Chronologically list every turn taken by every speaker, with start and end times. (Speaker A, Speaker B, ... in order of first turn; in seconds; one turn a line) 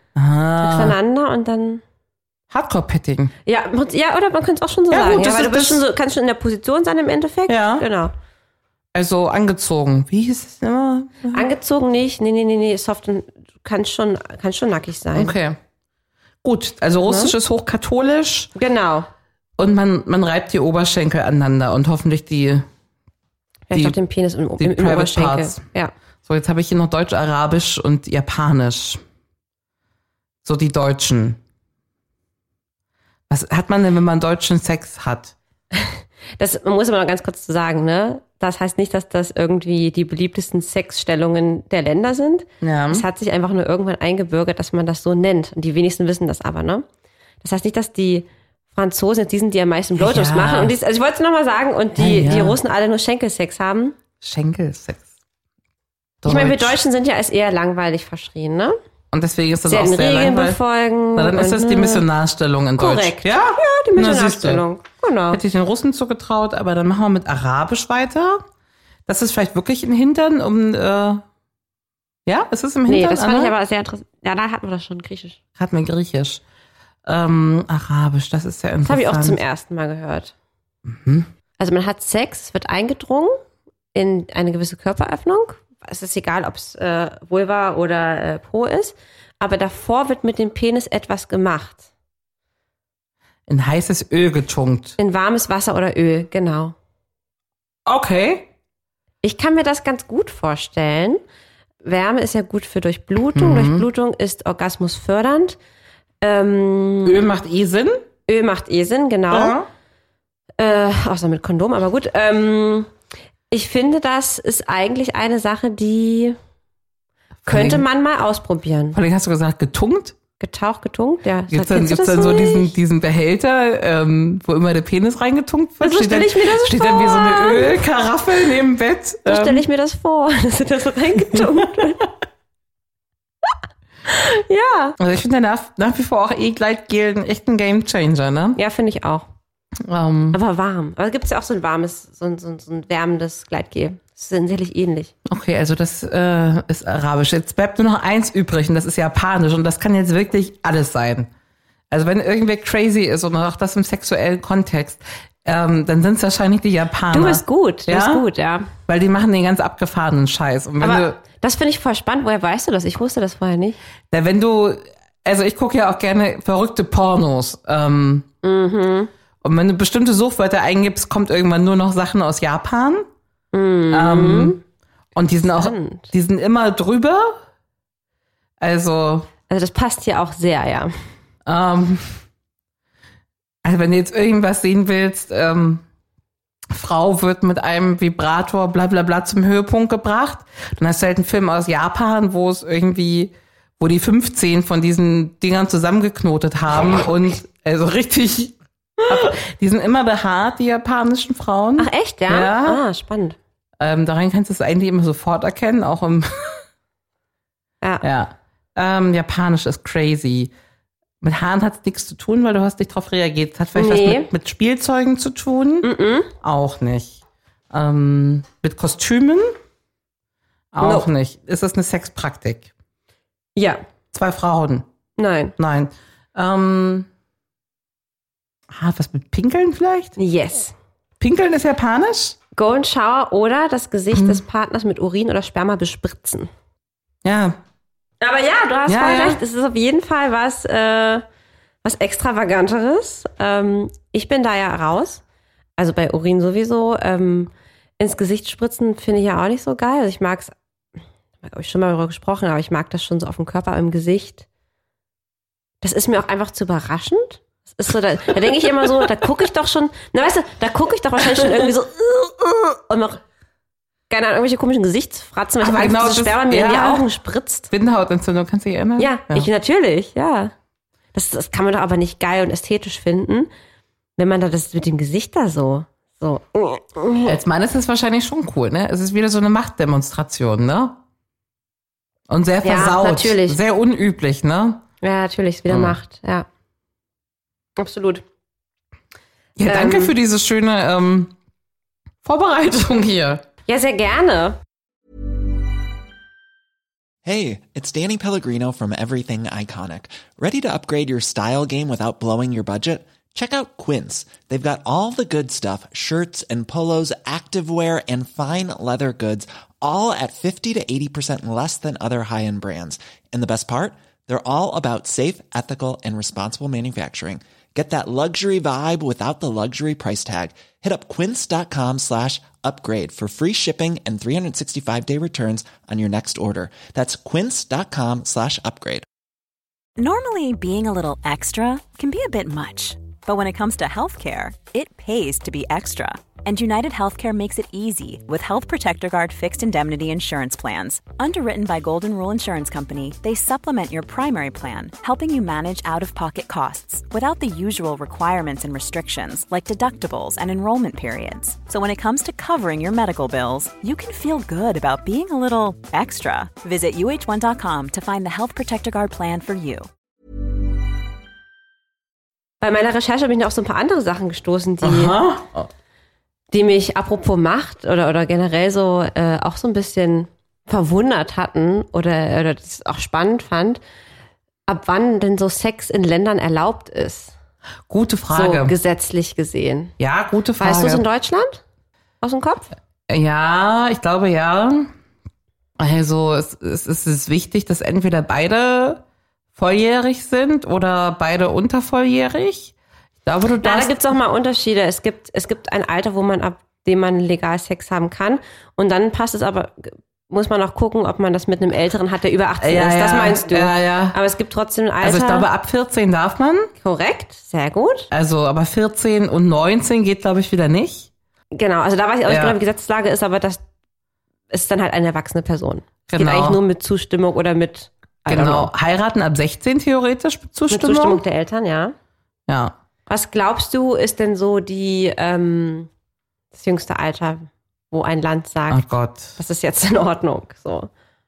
Speaker A: 0.1-0.9
Speaker B: 0.6-1.8
Speaker A: 2.5-3.3
Speaker B: 3.5-8.1
Speaker A: 4.9-5.8
Speaker A: 7.5-7.8
Speaker A: 8.9-11.5
Speaker B: 11.3-15.3
Speaker A: 15.1-15.6
Speaker A: 16.4-18.5
Speaker B: 17.1-17.3
Speaker B: 18.5-19.1
Speaker A: 19.6-22.7
Speaker B: 23.7-25.9
Speaker A: 23.7-24.0
Speaker A: 24.6-25.6
Speaker A: 26.2-29.0
Speaker A: 30.4-31.4
Speaker A: 33.3-35.3
Speaker B: 35.7-46.9
Speaker A: 42.6-43.0
Speaker B: 47.4-54.0
Speaker A: 50.0-50.7
Speaker A: 52.0-52.6
Speaker A: 54.2-55.1
Speaker A: 56.2-56.8
Speaker B: 56.2-58.8
Speaker A: 59.1-60.6
Speaker B: 59.7-62.0
Speaker A: 61.1-64.6
Speaker B: 62.8-65.4
Speaker A: 65.3-68.4
Speaker A: 69.0-71.2
Speaker A: 72.2-73.5
Speaker B: 72.9-75.4
Speaker A: 75.6-76.4
Speaker A: 77.0-79.4
Speaker B: 78.8-80.3
Speaker A: 80.8-81.3
Speaker B: 81.6-83.4
Speaker B: 83.9-91.9
Speaker A: 93.5-95.0
Speaker B: 95.0-96.7
Speaker A: 97.8-98.5
Speaker B: 99.2-101.2
Speaker B: 101.8-105.5
Speaker A: 103.3-103.9
Speaker B: 106.2-107.2
Speaker A: 107.0-108.0
Speaker B: 108.3-109.6
Speaker A: 109.3-109.7
Speaker B: 110.6-112.9
Speaker B: 113.5-116.3
Speaker A: 117.4-117.8
Speaker B: 117.5-119.0
Speaker A: 118.9-120.2
Speaker B: 120.4-122.7
Speaker A: 121.5-129.6
Speaker B: 125.8-127.8
Speaker B: 129.2-132.1
Speaker A: 131.3-131.8
Speaker B: 134.1-134.9
Speaker A: 135.0-138.6
Speaker B: 138.6-139.2
Speaker A: 139.8-140.4
Speaker B: 140.3-145.1
Speaker A: 145.2-151.3
Speaker A: 151.9-158.2
Speaker B: 157.1-158.7
Speaker A: 158.9-161.2
Speaker B: 160.8-163.8
Speaker A: 164.1-168.3
Speaker B: 168.4-169.1
Speaker A: 169.4-173.1
Speaker B: 173.5-174.6
Speaker A: 173.9-174.6
Speaker A: 175.1-177.4
Speaker B: 175.4-176.1
Speaker A: 178.6-179.3
Speaker B: 179.5-180.9
Speaker A: 181.4-182.2
Speaker A: 183.6-185.8
Speaker A: 186.7-198.6
Speaker A: 199.1-202.8
Speaker B: 201.8-203.4
Speaker A: 203.8-206.6
Speaker A: 208.0-210.5
Speaker A: 211.2-215.9
Speaker B: 213.7-214.3
Speaker B: 215.8-216.3
Speaker A: 216.4-217.2
Speaker A: 217.7-219.6
Speaker A: 220.7-222.7
Speaker B: 220.8-221.1
Speaker B: 223.6-223.8
Speaker A: 224.1-224.8
Speaker B: 225.2-225.5
Speaker A: 225.6-227.1
Speaker A: 228.7-230.2
Speaker B: 230.2-230.7
Speaker A: 231.2-232.4
Speaker B: 232.5-236.5
Speaker A: 234.1-234.4
Speaker A: 237.2-237.6
Speaker B: 238.2-241.2
Speaker A: 238.9-239.4
Speaker B: 241.8-245.2
Speaker B: 245.8-250.5
Speaker B: 251.4-254.4
Speaker B: 255.8-263.2
Speaker B: 264.1-267.7
Speaker A: 265.6-267.1
Speaker A: 267.7-269.5
Speaker B: 269.0-270.5
Speaker B: 271.1-273.5
Speaker B: 274.2-277.4
Speaker A: 277.2-281.0
Speaker A: 282.3-284.8
Speaker B: 282.6-283.6
Speaker B: 285.0-286.4
Speaker A: 285.7-286.0
Speaker B: 287.8-288.2
Speaker A: 289.6-291.3
Speaker B: 289.6-290.1
Speaker A: 292.2-293.4
Speaker B: 293.7-294.6
Speaker C: 297.2-329.0
Speaker D: 330.0-359.9
Speaker B: 362.6-365.2
Speaker A: 364.8-365.7
Speaker B: 366.5-373.8
Speaker B: 374.7-377.3
Speaker A: 377.9-378.7
Speaker B: 378.3-379.9
Speaker A: 380.0-381.0
Speaker B: 380.6-381.6
Speaker B: 382.2-382.7
Speaker A: 383.1-384.9
Speaker A: 385.8-389.0
Speaker A: 389.5-392.7
Speaker A: 393.2-394.0
Speaker B: 393.6-405.5
Speaker A: 402.6-404.2
Speaker A: 405.0-406.7
Speaker B: 406.8-408.1
Speaker A: 408.1-411.1
Speaker B: 411.5-413.6
Speaker A: 412.3-412.6
Speaker B: 414.5-418.7
Speaker A: 416.1-416.6
Speaker A: 418.3-421.2
Speaker B: 420.7-421.9
Speaker A: 422.5-422.7
Speaker B: 423.1-425.9
Speaker B: 426.5-428.8
Speaker A: 428.7-429.4
Speaker B: 429.4-430.9